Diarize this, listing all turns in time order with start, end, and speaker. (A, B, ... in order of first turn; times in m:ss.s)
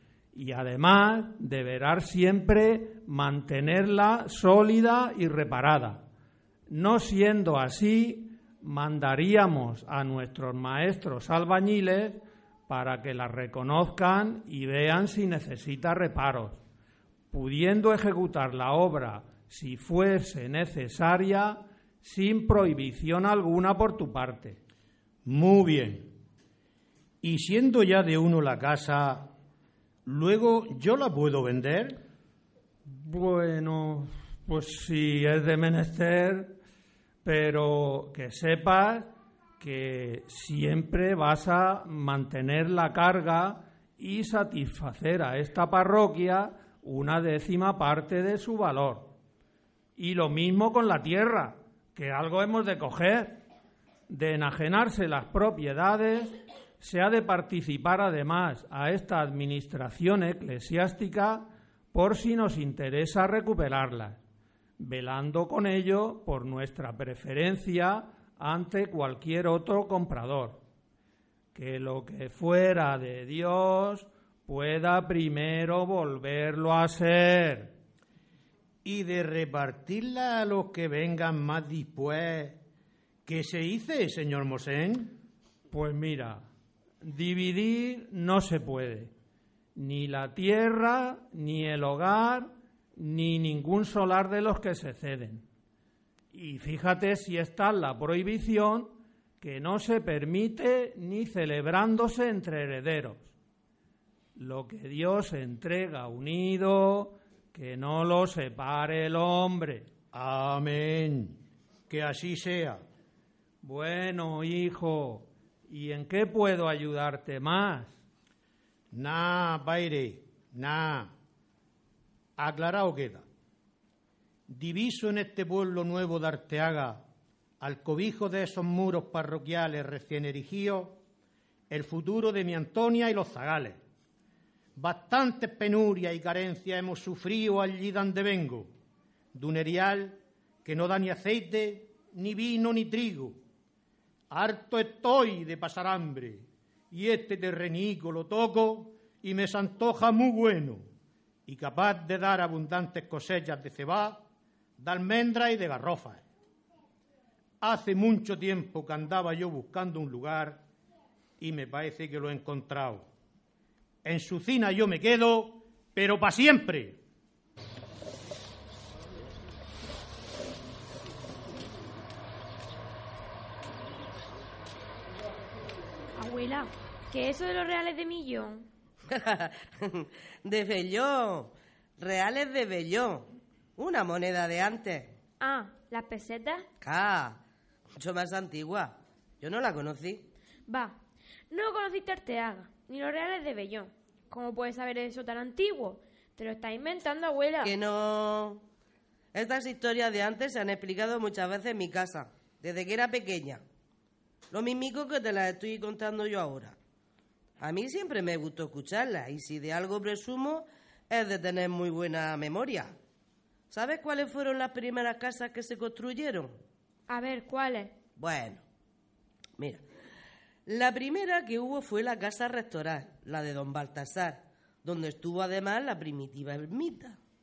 0:00.3-0:06.0 A
0:06.7-0:16.6 A
0:17.3-0:24.6 A
0:25.2-0:26.1 B
0:27.2-0:29.3 B
0:30.0-0:32.0 B
0:32.9-0:36.5 A
0:37.2-0:49.1 A
0:50.0-0:53.4 A
0:54.1-1:04.2 A
1:04.8-1:10.6 A
1:11.5-1:17.7 A
1:18.8-1:22.6 B
1:23.2-1:25.1 B
1:25.7-1:26.4 A
1:27.0-1:29.1 A
1:29.7-1:35.4 A
1:36.3-1:43.3 A
1:44.4-1:49.9 A
1:50.1-1:51.4 B
1:51.9-1:52.8 B
1:53.6-1:57.9 A
1:58.9-2:01.1 B
2:02.4-2:03.2 B
2:04.5-2:07.0 B
2:07.6-2:11.0 B
2:11.7-2:13.8 B
2:14.8-2:18.7 B
2:19.3-2:23.4 B
2:24.3-2:30.8 B
2:31.5-2:34.2 B
2:34.8-2:36.2 B
2:37.6-2:40.6 B
2:41.4-2:43.1 B
2:44.0-2:47.0 B
2:56.2-2:58.6 C
2:59.1-3:05.1 D
3:05.4-3:06.6 C
3:06.8-3:07.4 D
3:08.0-3:10.2 D
3:10.7-3:11.0 C
3:11.5-3:17.7 C
3:17.6-3:18.6 D
3:19.3-3:23.6 D
3:24.5-3:26.8 D
3:27.6-3:32.9 D
3:33.7-3:36.5 D
3:37.1-3:37.9 C
3:38.2-3:38.6 D
3:40.7-3:47.2 D